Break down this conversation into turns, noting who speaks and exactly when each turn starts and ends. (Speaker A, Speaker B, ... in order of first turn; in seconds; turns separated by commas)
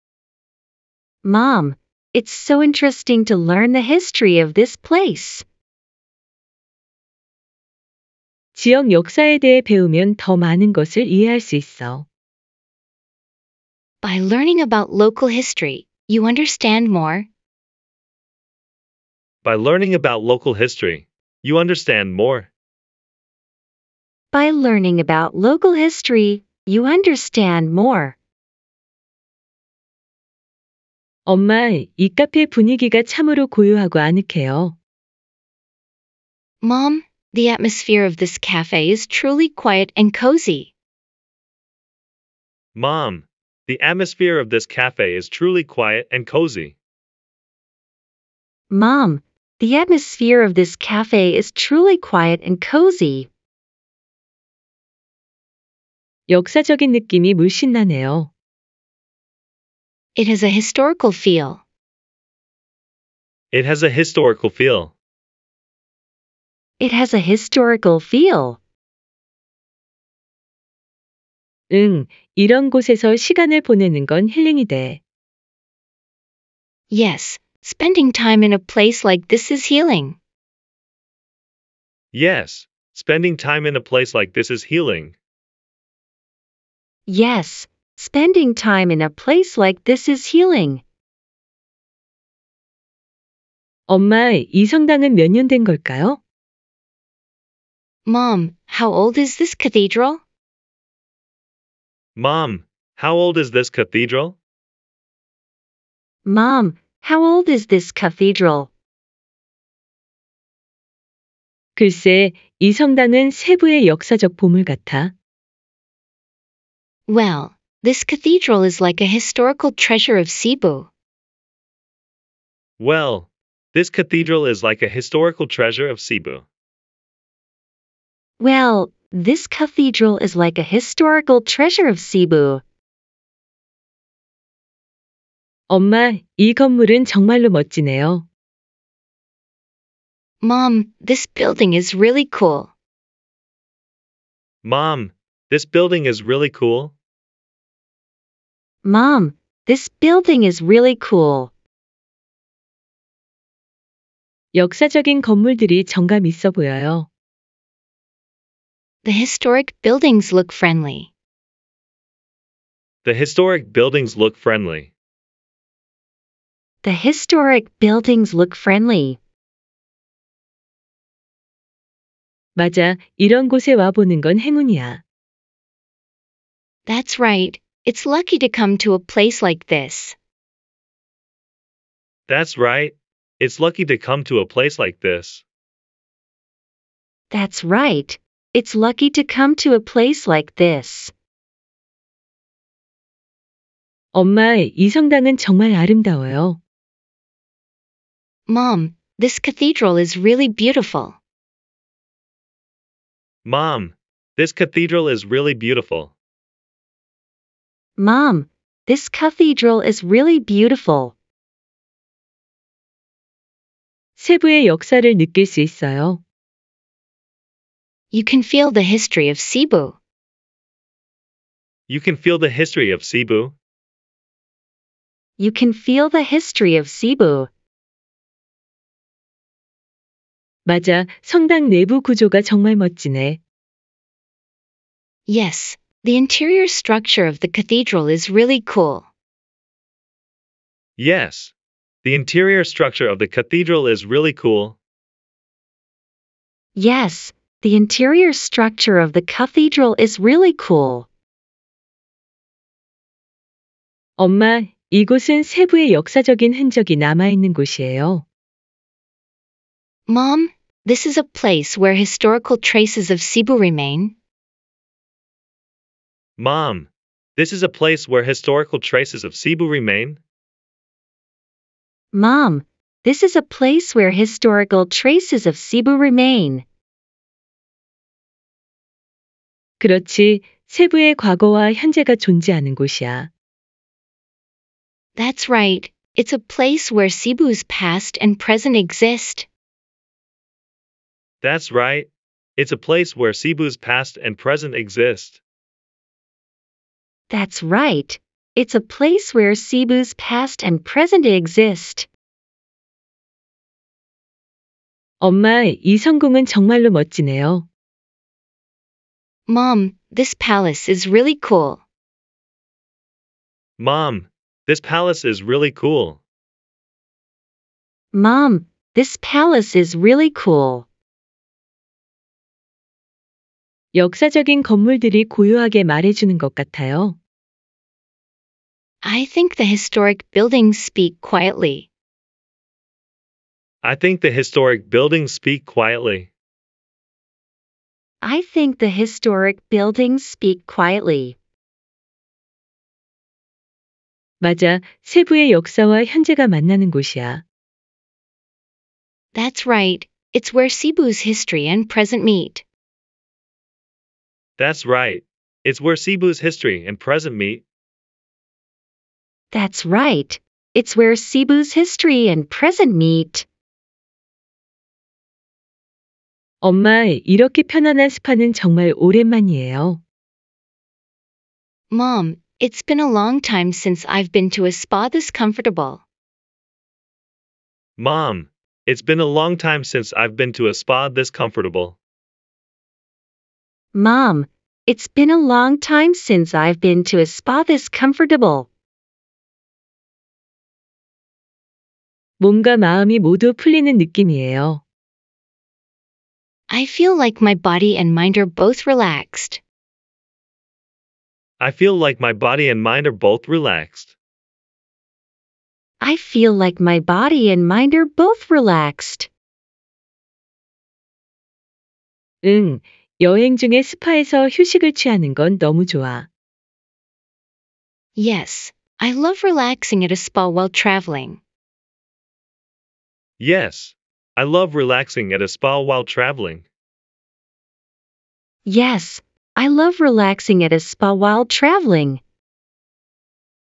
Speaker A: 1.2-5.4, Speaker B: 8.6-12.1, Speaker C: 14.0-17.3, Speaker D: 19.4-22.5, Speaker A: 24.3-28.2, Speaker B: 31.3-34.8, Speaker C: 36.6-40.7, Speaker D: 42.8-46.8, Speaker A: 48.7-53.3, Speaker B: 56.3-58.3, Speaker C: 60.2-61.6, Speaker D: 63.5-64.9, Speaker A: 66.8-68.6, Speaker B: 71.7-75.0, Speaker C: 76.9-80.2, Speaker D: 82.1-85.2, Speaker A: 87.1-90.8, Speaker B: 93.9-96.2, Speaker C: 98.1-100.2, Speaker D: 102.2-104.4, Speaker A: 106.2-108.7, Speaker B: 111.8-115.1, Speaker C: 117.1-120.9, Speaker D: 122.8-126.5, Speaker A: 128.4-132.6, Speaker B: 135.7-138.3, Speaker C: 140.4-142.7, Speaker D: 144.6-146.9, Speaker A: 148.8-151.5, Speaker B: 154.5-157.1, Speaker C: 159.0-161.1, Speaker D: 163.0-164.9, Speaker A: 166.8-169.2, Speaker B: 172.6-175.0, Speaker C: 176.9-180.2, Speaker D: 182.3-185.4, Speaker A: 187.3-191.1, Speaker B: 194.1-196.6, Speaker C: 198.5-201.2, Speaker D: 203.4-206.1, Speaker A: 208.0-211.1, Speaker B: 214.2-216.2, Speaker C: 218.1-220.0, Speaker D: 221.9-223.6, Speaker A: 225.4-227.5, Speaker B: 230.7-233.4, Speaker C: 235.3-239.1, Speaker D: 241.0-244.8, Speaker A: 246.8-251.1, Speaker B: 254.2-258.2, Speaker C: 260.1-264.1, Speaker D: 266.4-270.2, Speaker A: 272.1-276.6, Speaker B: 279.8-283.3, Speaker C: 285.2-289.5, Speaker D: 291.4-295.4, Speaker A: 297.3-302.1, Speaker B: 305.2-307.7, Speaker C: 309.5-311.8, Speaker D: 313.8-316.2, Speaker A: 318.1-320.9, Speaker B: 323.9-327.2, Speaker C: 329.0-331.9, Speaker D: 333.8-336.3, Speaker A: 338.2-341.4, Speaker B: 344.4-347.4, Speaker C: 349.3-352.6, Speaker D: 354.6-357.6, Speaker A: 359.5-363.5, Speaker B: 366.6-370.0, Speaker C: 371.9-376.0, Speaker D: 378.0-382.0, Speaker A: 383.9-388.7, Speaker B: 392.4-394.8, Speaker C: 396.7-399.6, Speaker D: 401.6-404.1, Speaker A: 406.0-409.3, Speaker B: 412.4-416.3, Speaker C: 418.2-421.4, Speaker D: 423.4-426.6, Speaker A: 428.6-432.2